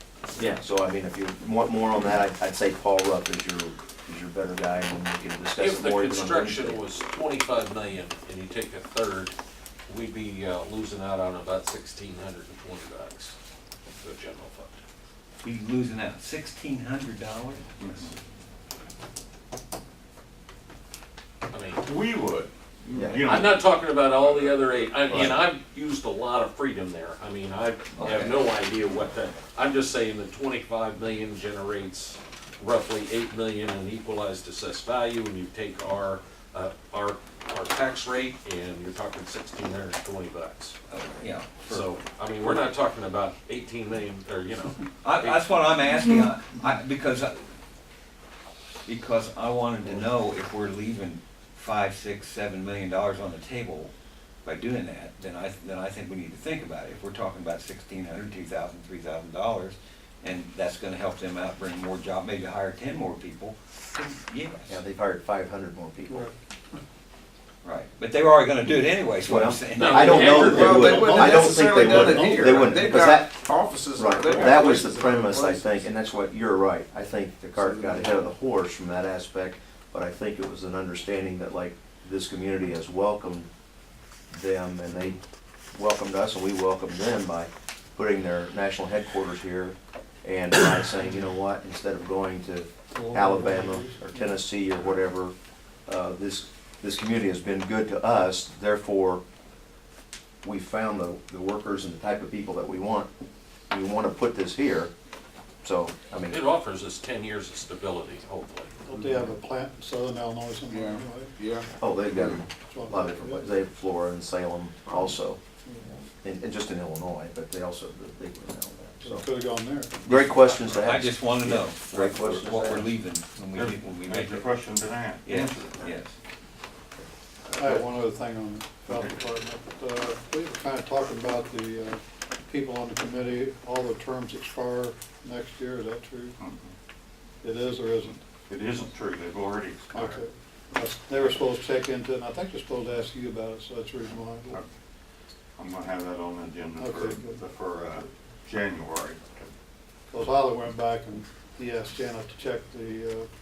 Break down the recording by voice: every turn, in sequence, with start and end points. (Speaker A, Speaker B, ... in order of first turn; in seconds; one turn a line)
Speaker A: 0.3-6.8
Speaker B: 5.6-9.3
Speaker B: 9.9-13.3
Speaker B: 13.9-14.7
Speaker C: 15.4-18.0
Speaker D: 17.8-18.1
Speaker B: 21.5-21.8
Speaker D: 21.8-25.3
Speaker A: 22.9-23.3
Speaker B: 23.2-40.7
Speaker C: 28.0-28.4
Speaker C: 40.9-41.8
Speaker B: 41.7-45.5
Speaker C: 45.0-47.4
Speaker C: 48.9-53.9
Speaker C: 54.4-64.8
Speaker A: 64.7-66.3
Speaker E: 66.1-66.3
Speaker C: 67.6-71.0
Speaker A: 69.2-73.3
Speaker B: 69.7-70.8
Speaker F: 70.0-75.8
Speaker E: 71.0-72.9
Speaker A: 74.0-83.5
Speaker F: 77.5-78.2
Speaker A: 84.3-85.2
Speaker A: 85.7-95.3
Speaker E: 92.9-94.3
Speaker A: 95.9-99.2
Speaker A: 100.4-103.1
Speaker A: 103.7-104.9
Speaker A: 105.6-106.4
Speaker B: 106.3-108.7
Speaker E: 108.8-111.3
Speaker F: 108.9-109.3
Speaker F: 110.7-112.4
Speaker A: 111.8-115.4
Speaker E: 112.6-113.5
Speaker F: 114.9-115.1
Speaker E: 115.7-115.9
Speaker A: 116.2-119.3
Speaker E: 119.0-120.0
Speaker A: 120.0-122.9
Speaker C: 120.0-124.5
Speaker D: 123.5-126.0
Speaker C: 125.2-126.1
Speaker D: 127.4-127.8
Speaker E: 127.6-136.3
Speaker D: 128.9-129.2
Speaker D: 136.4-136.7
Speaker E: 137.4-138.2
Speaker D: 138.5-140.2
Speaker E: 139.9-144.6
Speaker D: 145.6-149.2
Speaker E: 146.8-147.4
Speaker E: 150.1-153.3